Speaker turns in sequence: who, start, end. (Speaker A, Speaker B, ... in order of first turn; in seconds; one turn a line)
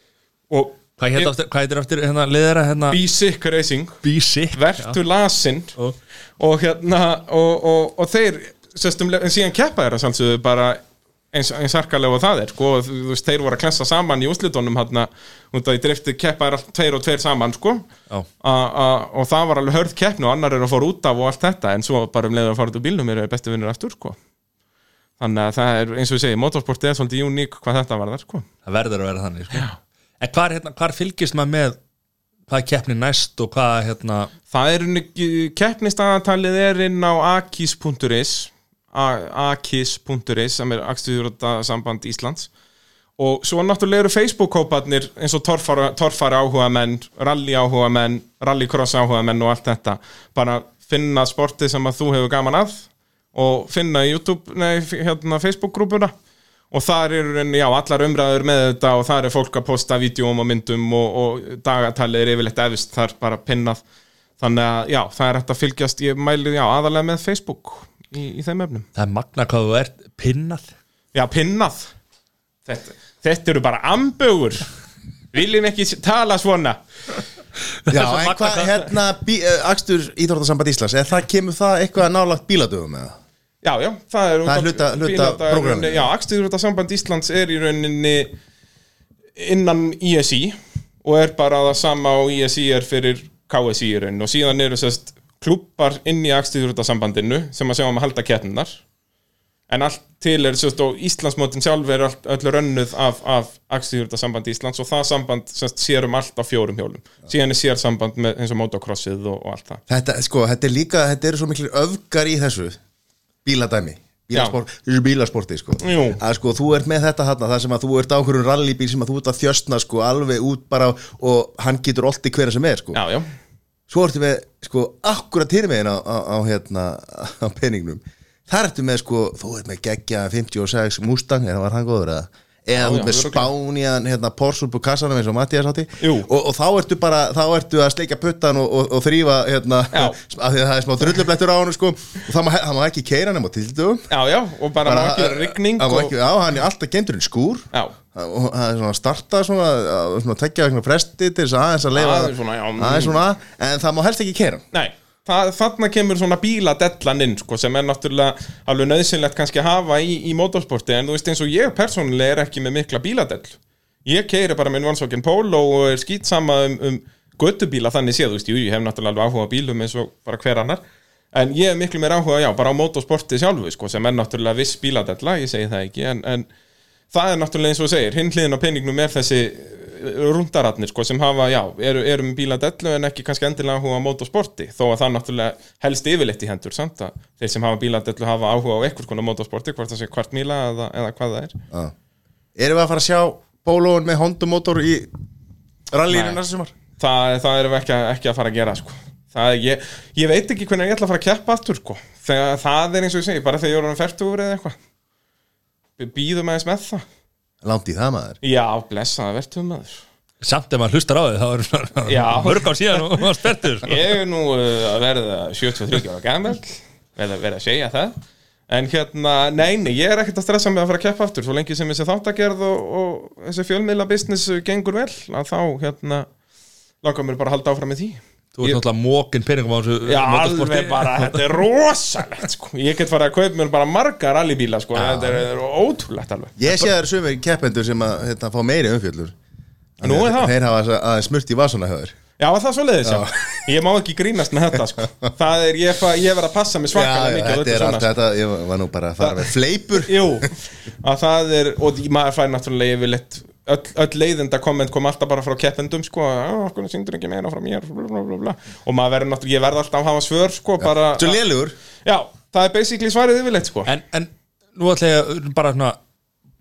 Speaker A: 0.5-1.3
Speaker B: 1.0-3.0
Speaker A: 2.9-4.0
Speaker B: 4.0-5.0
Speaker A: 4.5-5.7
Speaker A: 6.4-10.8
Speaker A: 11.3-17.9
Speaker A: 18.4-24.1
Speaker A: 25.2-28.4
Speaker B: 28.6-29.7
Speaker B: 30.2-31.8
Speaker B: 32.5-34.3
Speaker A: 34.5-42.5
Speaker A: 43.2-56.1
Speaker A: 56.7-63.8
Speaker A: 64.4-68.8
Speaker B: 69.0-70.7
Speaker A: 71.1-71.9
Speaker A: 72.7-74.7
Speaker A: 75.3-76.8
Speaker B: 77.9-78.7
Speaker C: 77.9-83.1
Speaker A: 83.6-88.3
Speaker C: 84.5-86.1
Speaker A: 89.3-98.8
Speaker A: 99.7-109.8
Speaker C: 109.9-112.8
Speaker C: 113.4-123.0
Speaker A: 115.8-116.2
Speaker A: 122.9-123.3
Speaker C: 123.9-144.1
Speaker A: 132.8-133.5
Speaker A: 136.0-136.3
Speaker A: 139.9-140.2
Speaker A: 144.1-146.1
Speaker C: 144.8-154.6
Speaker A: 151.9-153.2
Speaker A: 154.7-176.5
Speaker A: 177.1-191.6
Speaker C: 192.6-195.1
Speaker C: 195.9-196.7
Speaker A: 196.1-196.4
Speaker A: 197.0-204.8
Speaker A: 206.0-207.0
Speaker C: 207.6-208.4
Speaker A: 208.4-210.0
Speaker B: 210.4-214.0
Speaker A: 212.1-213.0
Speaker A: 213.8-218.2
Speaker A: 218.7-226.3
Speaker A: 227.0-228.8
Speaker B: 228.5-231.5
Speaker A: 230.0-236.9
Speaker C: 236.6-239.3
Speaker C: 240.0-242.1
Speaker A: 240.0-240.5
Speaker A: 242.4-248.1
Speaker C: 243.0-243.7
Speaker C: 246.9-250.3
Speaker A: 249.2-261.4
Speaker C: 260.8-261.7
Speaker A: 262.0-263.9
Speaker B: 263.9-266.0